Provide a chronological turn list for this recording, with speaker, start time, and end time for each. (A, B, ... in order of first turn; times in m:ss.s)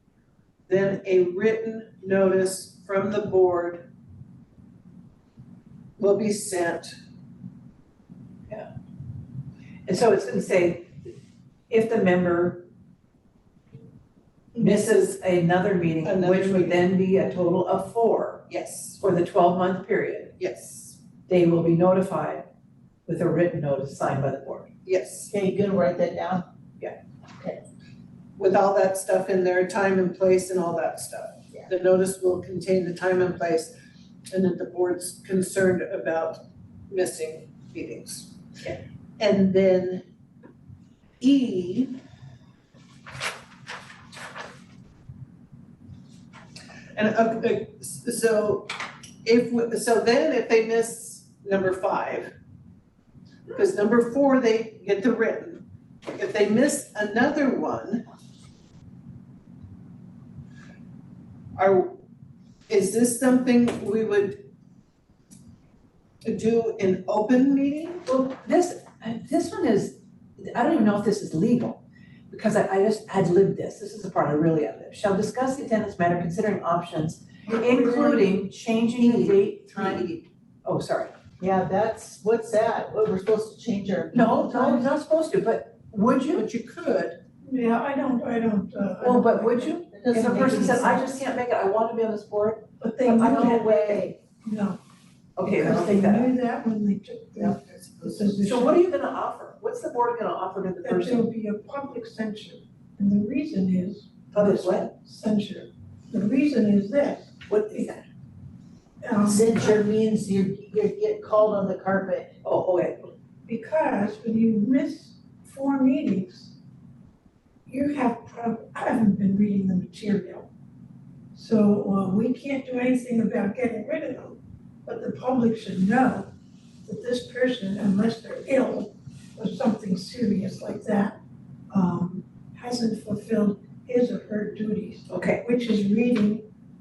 0:00.7-0:03.8 A
0:06.0-0:06.9 A
0:09.8-0:10.9 B
0:11.7-0:12.6 B
0:14.5-0:18.4 B
0:16.0-0:16.8 A
0:18.5-0:19.0 A
0:19.0-0:20.3 B
0:20.4-0:21.0 A
0:21.3-0:22.4 B
0:23.0-0:24.7 B
0:24.8-0:25.3 A
0:25.3-0:26.4 C
0:28.4-0:33.7 A
0:34.3-0:38.3 A
0:39.2-0:40.0 A
0:41.2-0:42.0 A
0:47.0-0:48.7 A
0:49.2-0:52.3 A
0:53.5-0:58.0 A
1:01.6-1:01.9 A
1:02.7-1:04.4 A
1:06.2-1:08.0 A
1:08.0-1:21.1 B
1:17.5-1:18.4 C
1:19.0-1:20.1 C
1:21.4-1:24.9 C
1:24.1-1:26.4 B
1:26.3-1:27.2 A
1:27.4-1:30.7 D
1:29.0-1:34.1 B
1:29.9-1:31.2 C
1:32.8-1:33.7 D
1:33.2-1:34.2 C
1:34.4-1:34.8 D
1:35.4-1:36.3 B
1:35.4-1:38.8 D
1:37.4-1:38.4 C
1:38.4-1:41.3 B
1:40.8-1:47.9 D
1:44.3-1:44.9 B
1:47.5-1:48.0 B
1:49.0-1:49.8 D
1:49.2-1:52.3 C
1:52.4-1:53.1 B
1:53.4-1:56.5 D
1:57.6-2:00.5 D
2:01.3-2:06.3 D
2:06.8-2:11.2 D
2:11.7-2:16.5 D
2:15.1-2:15.4 B